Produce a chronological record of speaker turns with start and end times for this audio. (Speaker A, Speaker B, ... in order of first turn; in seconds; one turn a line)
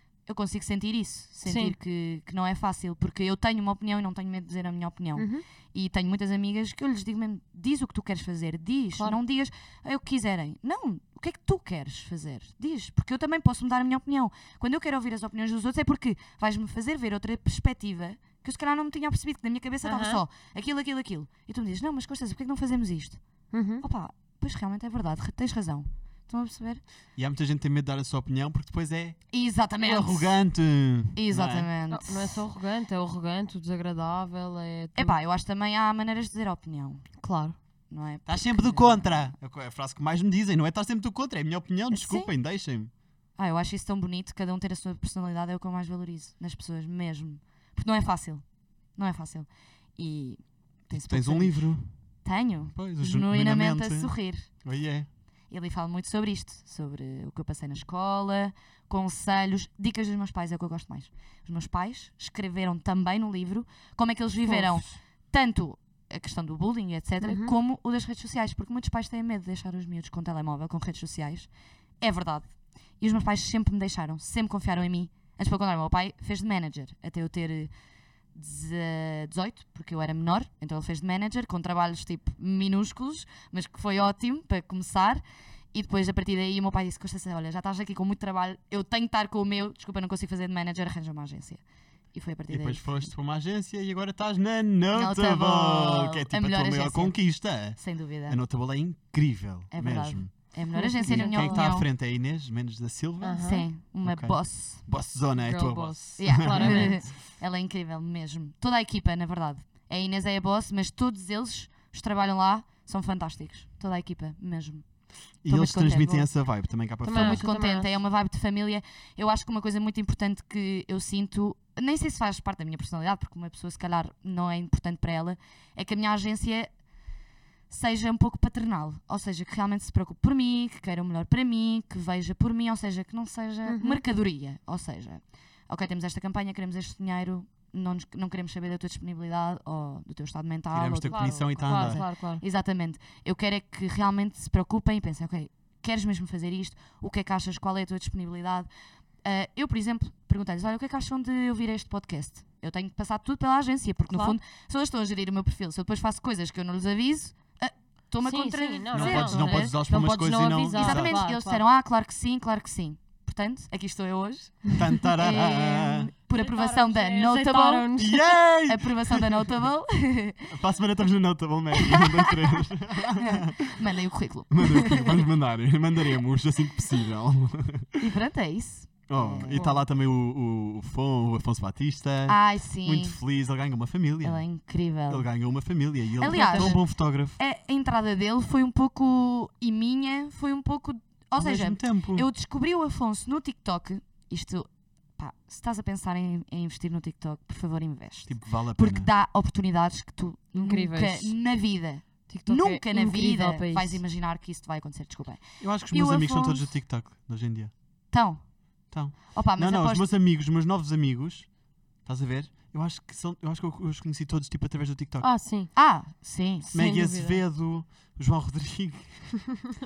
Speaker A: 0.3-23.2
Speaker B: 1.4-1.7
Speaker B: 5.1-5.4
Speaker B: 19.8-20.2
Speaker B: 23.5-23.8
Speaker A: 23.8-26.8
Speaker C: 27.1-29.2
Speaker A: 29.3-30.4
Speaker C: 29.8-31.7
Speaker A: 31.1-32.4
Speaker B: 31.9-35.1
Speaker A: 35.0-37.0
Speaker B: 37.2-37.5
Speaker A: 37.9-39.3
Speaker C: 38.3-42.9
Speaker A: 41.9-42.3
Speaker A: 43.4-48.4
Speaker A: 49.0-51.7
Speaker C: 50.9-51.9
Speaker A: 52.2-54.5
Speaker C: 52.7-55.1
Speaker A: 55.5-71.5
Speaker B: 64.4-64.8
Speaker B: 67.2-67.5
Speaker A: 72.0-72.5
Speaker A: 73.0-77.7
Speaker A: 78.3-91.6
Speaker A: 92.1-93.1
Speaker C: 92.5-103.5
Speaker A: 94.9-98.4
Speaker A: 99.7-101.9
Speaker B: 100.7-101.7
Speaker B: 103.2-103.7
Speaker A: 103.4-104.8
Speaker C: 104.0-107.0
Speaker B: 105.4-107.1
Speaker A: 106.2-114.8
Speaker C: 115.4-117.4
Speaker A: 115.5-116.3
Speaker B: 117.0-118.0
Speaker A: 117.1-126.7
Speaker A: 127.7-148.7
Speaker B: 133.7-134.0
Speaker C: 140.7-142.0
Speaker B: 141.0-142.4
Speaker A: 149.2-159.8
Speaker B: 154.1-154.4
Speaker B: 158.2-161.6
Speaker C: 158.9-161.2
Speaker A: 160.7-168.0
Speaker C: 164.7-166.1
Speaker B: 166.3-168.3
Speaker C: 168.0-169.5
Speaker A: 168.7-170.5
Speaker C: 170.5-173.8
Speaker A: 171.8-172.3
Speaker A: 173.0-175.2
Speaker C: 174.5-178.0
Speaker A: 178.0-179.6
Speaker C: 179.1-184.4
Speaker B: 179.4-179.8
Speaker A: 182.3-183.2
Speaker A: 184.2-185.2
Speaker C: 185.1-187.4
Speaker A: 186.2-206.6
Speaker B: 186.2-186.8
Speaker C: 191.3-192.2
Speaker C: 198.2-199.1
Speaker B: 200.5-201.3
Speaker B: 202.3-204.0
Speaker C: 205.6-207.7
Speaker A: 208.1-208.5
Speaker C: 208.9-211.5
Speaker A: 209.3-210.0
Speaker C: 212.0-215.3
Speaker B: 215.2-215.7
Speaker A: 215.7-216.7
Speaker B: 216.6-217.4
Speaker C: 216.7-219.4